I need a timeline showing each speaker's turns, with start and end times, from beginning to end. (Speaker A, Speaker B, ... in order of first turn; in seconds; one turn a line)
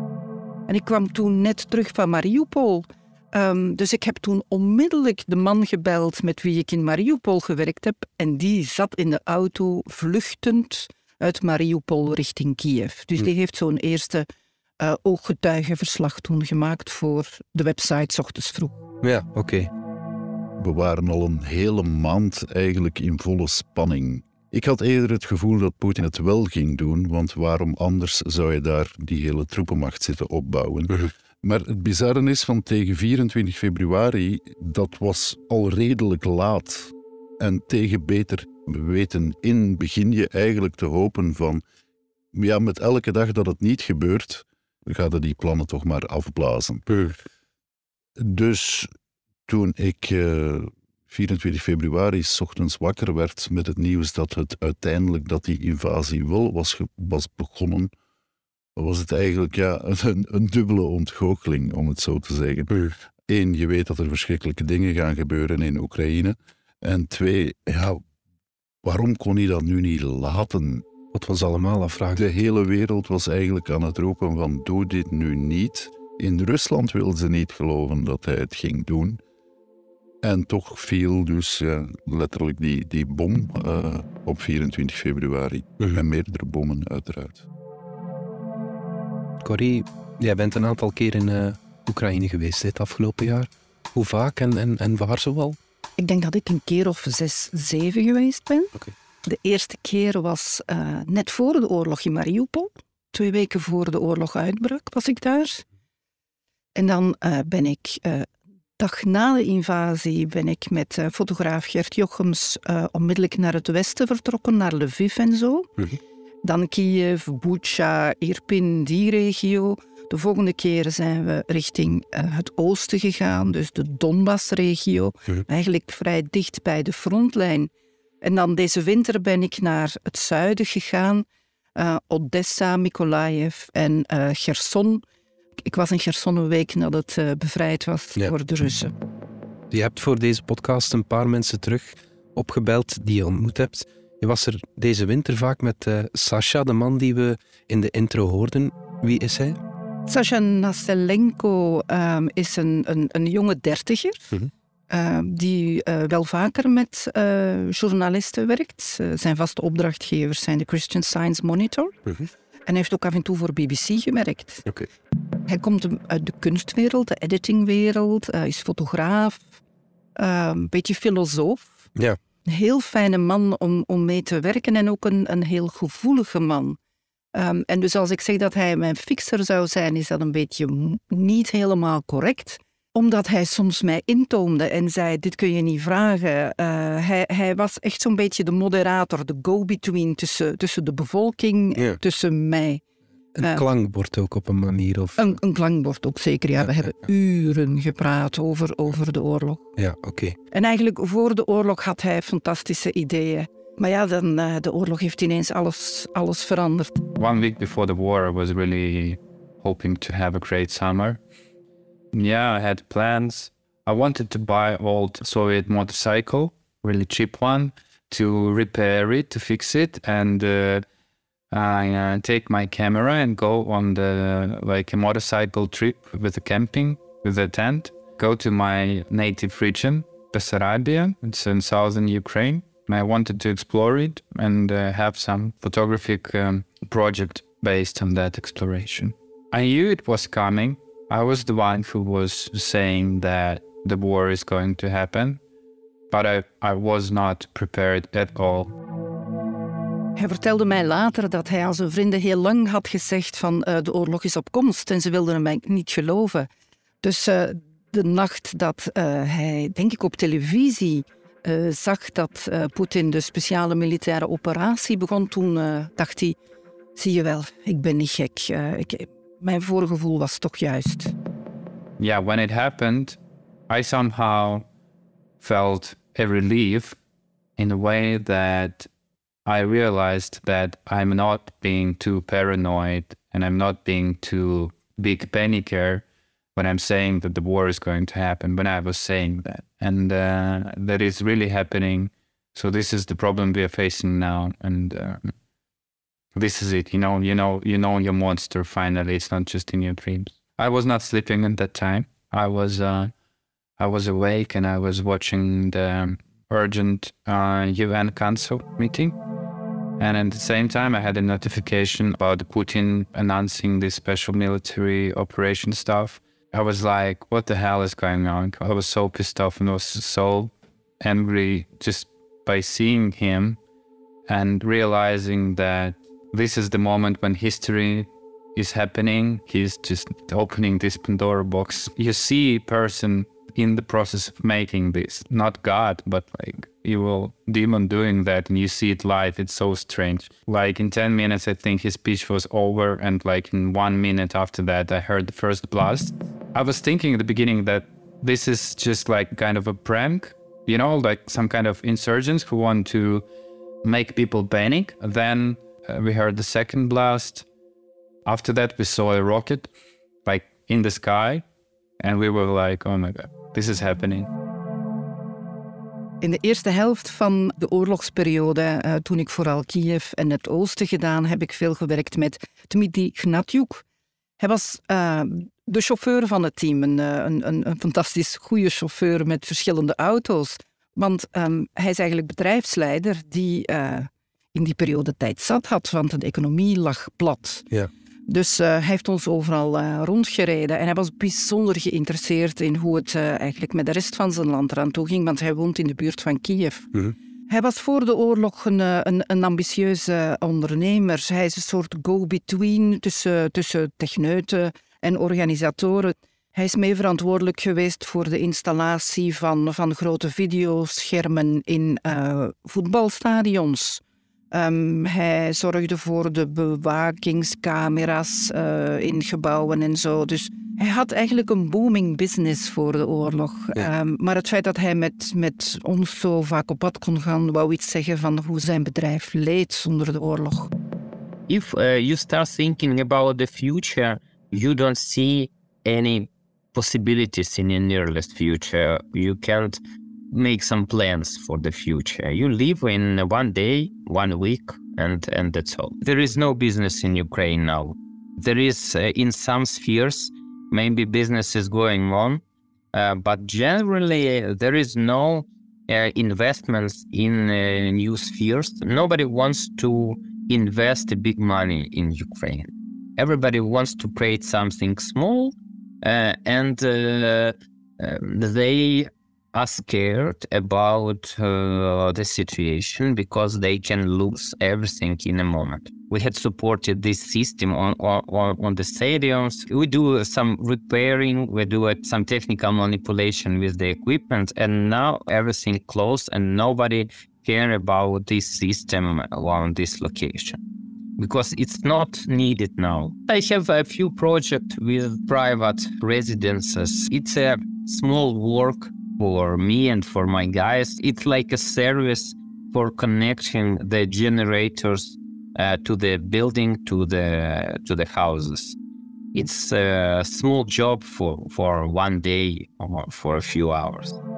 Speaker A: 0.7-14.3
Speaker A: 14.8-18.8
Speaker B: 19.0-19.7
Speaker C: 20.6-41.6
Speaker C: 42.3-46.9
Speaker B: 46.9-47.1
Speaker C: 48.2-48.9
Speaker C: 49.5-57.9
Speaker C: 58.8-62.8
Speaker C: 63.3-68.0
Speaker C: 68.8-70.8
Speaker B: 71.1-72.2
Speaker C: 72.2-79.2
Speaker C: 80.2-87.5
Speaker B: 89.4-95.6
Speaker A: 96.0-105.6
Speaker A: 106.8-115.8
Speaker A: 116.4-135.0
Speaker A: 135.6-138.9
Speaker B: 139.7-149.6
Speaker A: 150.1-154.3
Speaker A: 154.9-162.0
Speaker A: 162.7-164.7
Speaker A: 165.5-169.6
Speaker A: 170.2-171.9
Speaker A: 172.4-176.8
Speaker A: 177.3-192.8
Speaker B: 193.3-195.3
Speaker A: 195.2-199.7
Speaker B: 199.8-200.4
Speaker A: 200.5-207.0
Speaker D: 207.2-211.2
Speaker D: 212.1-220.8
Speaker D: 221.5-245.4
Speaker D: 246.1-248.7
Speaker A: 250.2-256.5
Speaker A: 257.0-266.4
Speaker A: 267.0-271.1
Speaker D: 272.0-273.2
Speaker D: 273.7-274.7
Speaker D: 275.4-277.0
Speaker D: 277.6-278.9
Speaker D: 279.5-286.1
Speaker D: 286.6-295.3
Speaker D: 296.3-303.1
Speaker D: 303.8-309.2
Speaker D: 310.0-323.6
Speaker D: 324.3-353.3
Speaker D: 353.8-357.5
Speaker D: 358.3-359.7
Speaker D: 360.2-361.4
Speaker D: 362.0-364.3
Speaker A: 366.2-373.8
Speaker A: 374.4-387.7
Speaker A: 388.3-396.9
Speaker A: 397.5-430.7
Speaker E: 431.5-439.8
Speaker E: 440.3-490.6
Speaker E: 491.2-508.8
Speaker E: 509.3-514.2